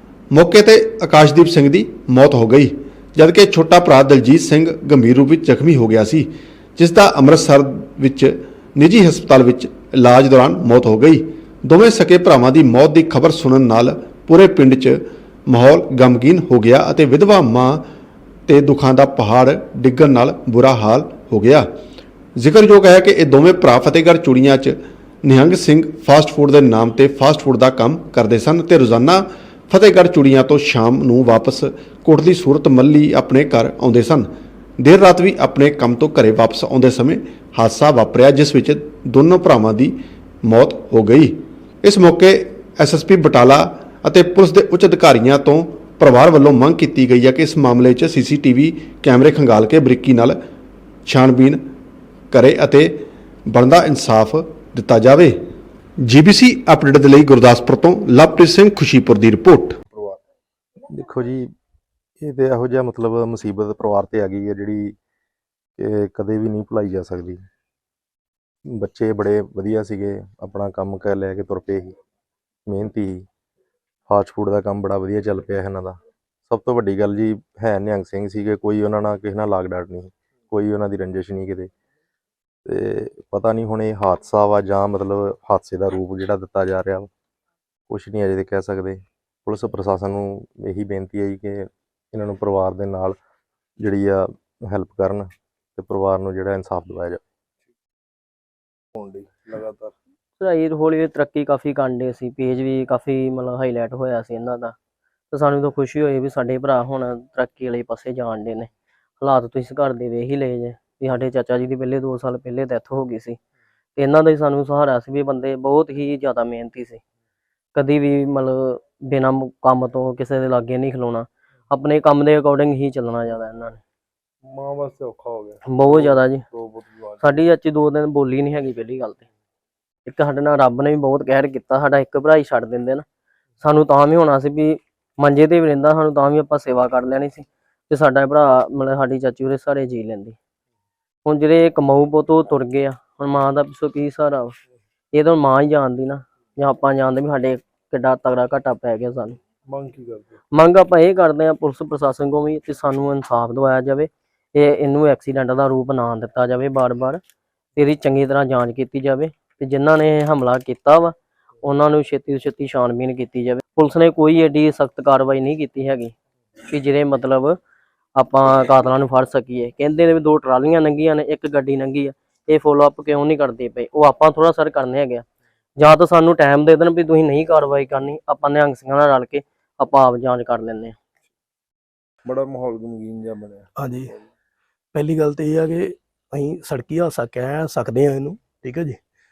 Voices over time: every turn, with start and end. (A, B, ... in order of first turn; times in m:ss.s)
0:00.3-0:17.8 A
0:18.5-0:21.6 A
0:22.4-0:34.3 A
0:34.8-0:50.4 A
0:51.0-0:51.6 A
0:52.3-0:52.9 A
0:53.5-0:55.4 A
0:56.0-0:59.8 A
0:59.9-1:00.2 B
1:00.9-1:01.5 C
1:02.2-1:04.9 C
1:05.8-1:07.4 C
1:08.7-1:11.9 C
1:12.7-1:13.3 C
1:14.1-1:16.0 C
1:16.5-1:21.7 C
1:22.6-1:27.1 C
1:27.9-1:33.2 C
1:33.8-1:37.2 C
1:38.9-1:39.9 B
1:40.4-1:44.7 D
1:45.3-1:48.7 D
1:49.2-1:53.4 D
1:54.0-1:57.0 D
1:57.7-2:03.8 D
2:04.5-2:07.2 B
2:05.7-2:06.4 D
2:07.2-2:09.3 D
2:10.0-2:13.0 D
2:13.6-2:20.4 D
2:21.2-2:24.6 D
2:25.1-2:29.4 D
2:29.7-2:30.4 B
2:30.5-2:37.2 D
2:37.8-2:46.1 D
2:46.6-2:47.6 D
2:48.2-2:55.2 D
2:55.8-3:01.0 D
3:02.2-3:03.7 B
3:03.8-3:04.1 E
3:04.9-3:09.0 E